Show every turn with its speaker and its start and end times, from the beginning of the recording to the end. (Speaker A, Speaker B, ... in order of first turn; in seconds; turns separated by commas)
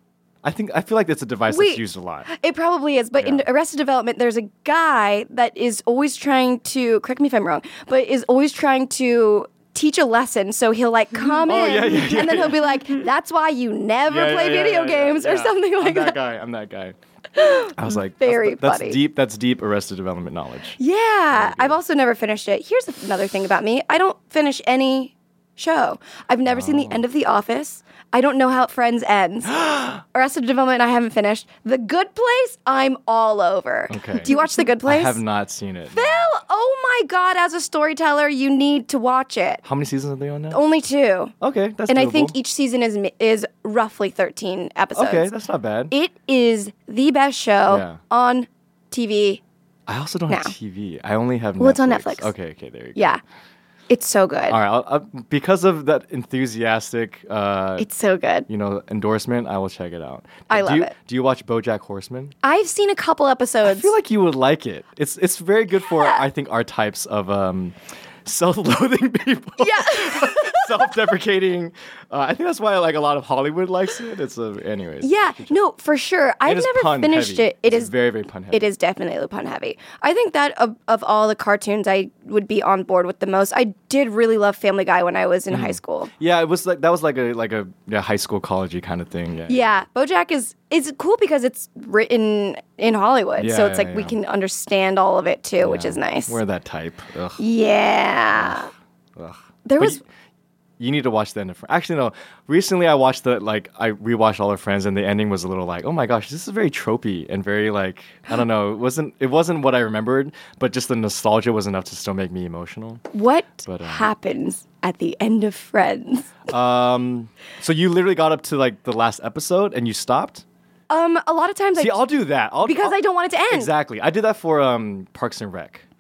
Speaker A: 0.4-2.3, Speaker B: 1.5-16.2, Speaker A: 3.2-3.5, Speaker A: 11.2-13.0, Speaker A: 14.0-16.9, Speaker B: 17.3-19.0, Speaker A: 17.7-20.8, Speaker B: 20.8-35.2, Speaker A: 21.3-21.8, Speaker A: 26.4-27.0, Speaker A: 29.4-30.0, Speaker A: 33.9-36.3, Speaker B: 35.9-39.6, Speaker A: 39.6-40.6, Speaker B: 40.5-41.3, Speaker A: 41.4-42.3, Speaker B: 41.9-45.3, Speaker A: 44.9-45.9, Speaker B: 45.9-49.4, Speaker A: 47.7-48.0, Speaker A: 49.9-53.2, Speaker B: 51.6-52.3, Speaker B: 52.9-53.2, Speaker B: 53.9-54.6, Speaker A: 54.5-57.9, Speaker B: 57.8-58.5, Speaker A: 58.5-62.3, Speaker B: 60.5-60.9, Speaker B: 62.4-63.9, Speaker A: 63.7-75.5, Speaker B: 69.6-70.8, Speaker B: 75.0-77.9, Speaker A: 76.4-78.7, Speaker B: 78.5-86.1, Speaker A: 85.5-89.8, Speaker B: 89.5-96.4, Speaker A: 93.4-94.2, Speaker A: 95.6-97.4, Speaker B: 97.4-98.7, Speaker A: 98.3-98.6, Speaker A: 99.2-100.0, Speaker B: 99.6-100.0, Speaker A: 100.8-113.0, Speaker B: 113.1-116.4, Speaker A: 113.6-114.1, Speaker A: 116.5-120.4, Speaker B: 120.9-122.0, Speaker A: 121.8-123.0, Speaker B: 122.6-123.7, Speaker A: 123.5-125.8